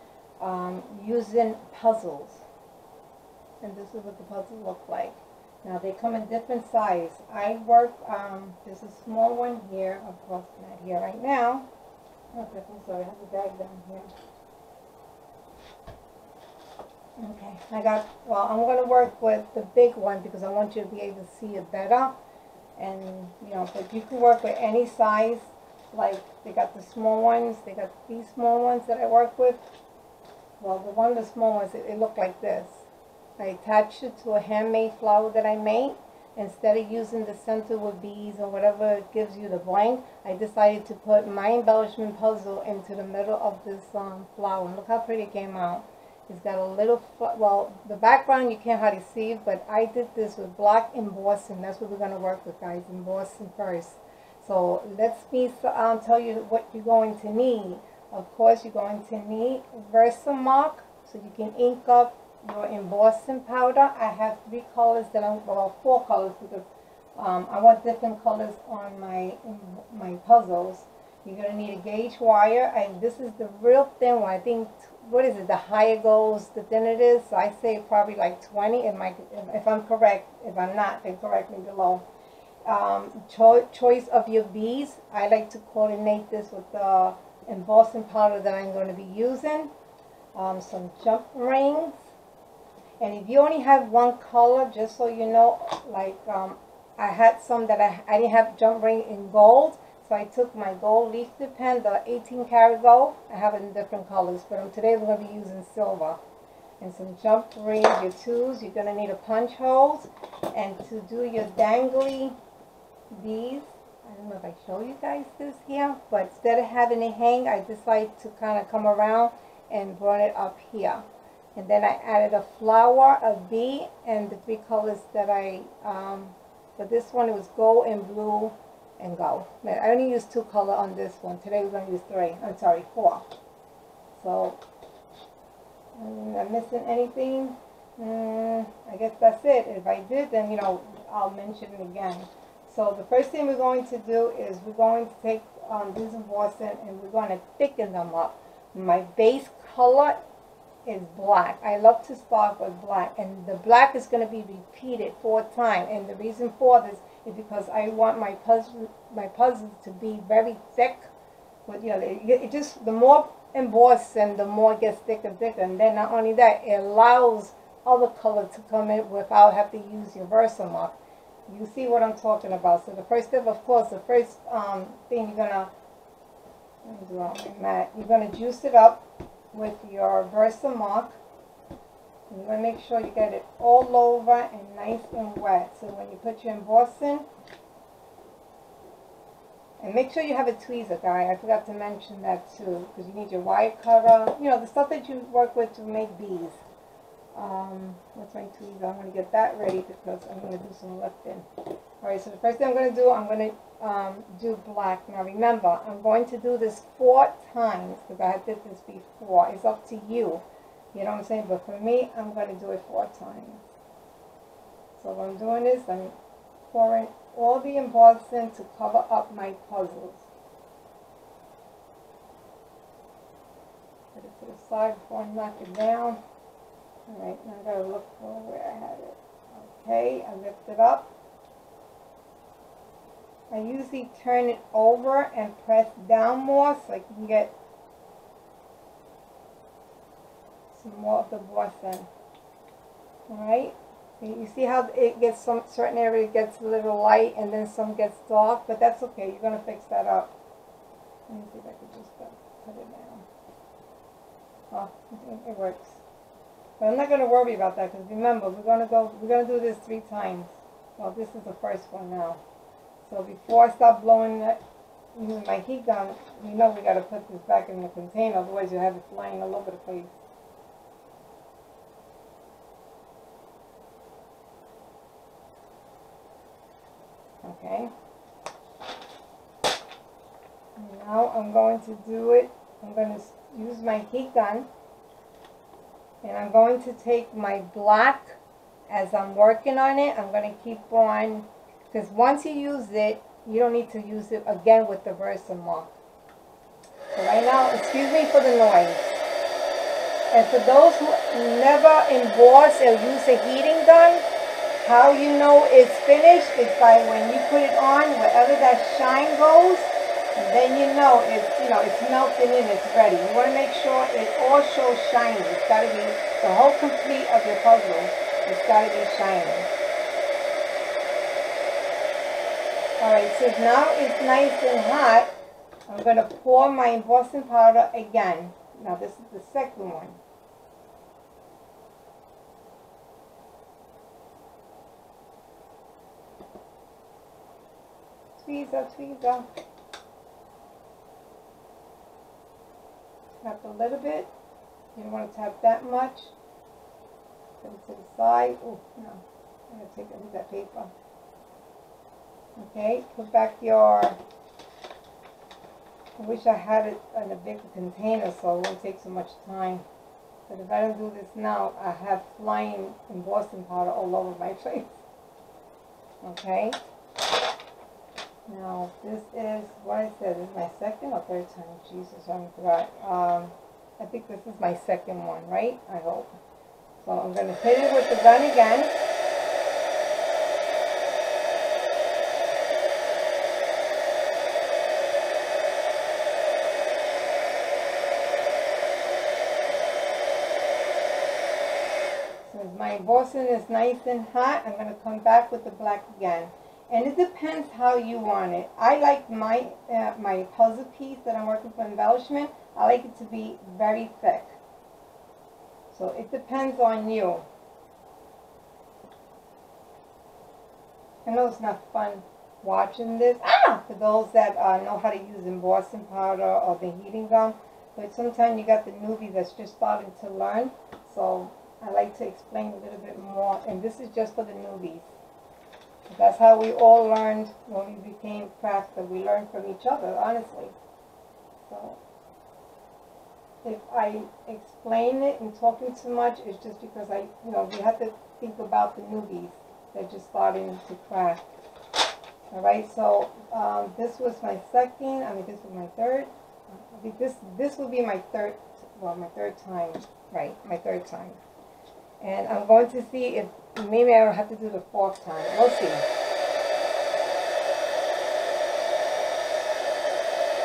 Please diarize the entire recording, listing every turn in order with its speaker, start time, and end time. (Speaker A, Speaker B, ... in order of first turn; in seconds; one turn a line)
Speaker A: 0.4-2.4
Speaker A: 3.6-11.7
Speaker A: 12.3-14.1
Speaker A: 17.2-22.1
Speaker A: 22.8-29.6
Speaker A: 30.6-32.8
Speaker A: 33.4-82.0
Speaker A: 82.6-89.7
Speaker A: 90.3-92.0
Speaker A: 93.0-106.2
Speaker A: 106.8-112.3
Speaker A: 113.1-121.0
Speaker A: 121.5-133.2
Speaker A: 134.1-134.6
Speaker A: 136.0-150.2
Speaker A: 150.8-161.1
Speaker A: 161.7-170.9
Speaker A: 171.5-175.7
Speaker A: 176.8-181.2
Speaker A: 182.3-187.3
Speaker A: 189.8-196.6
Speaker A: 197.3-201.4
Speaker A: 202.0-213.6
Speaker A: 215.0-216.1
Speaker A: 216.7-220.3
Speaker A: 224.1-226.2
Speaker A: 227.1-231.1
Speaker A: 233.5-237.5
Speaker A: 240.7-242.1
Speaker A: 243.3-250.3
Speaker A: 251.3-253.2
Speaker A: 254.7-256.0
Speaker A: 256.8-262.4
Speaker A: 263.0-264.6
Speaker A: 265.1-270.1
Speaker A: 277.4-277.9
Speaker A: 280.8-284.7
Speaker A: 286.2-295.9
Speaker A: 297.1-299.1
Speaker A: 300.3-304.2
Speaker A: 304.8-319.7
Speaker A: 323.0-325.3
Speaker A: 325.9-330.2
Speaker A: 338.4-339.4
Speaker A: 343.4-344.3
Speaker A: 344.9-346.3
Speaker A: 347.6-350.9
Speaker A: 352.6-354.2
Speaker A: 356.2-359.8
Speaker A: 360.5-365.0
Speaker A: 366.2-366.8
Speaker A: 368.5-376.3
Speaker A: 377.0-378.9
Speaker A: 392.4-404.6
Speaker A: 405.9-407.4
Speaker A: 411.2-425.1
Speaker A: 426.1-430.7
Speaker A: 431.7-432.0
Speaker A: 433.6-441.5
Speaker A: 442.5-451.4
Speaker A: 452.2-456.1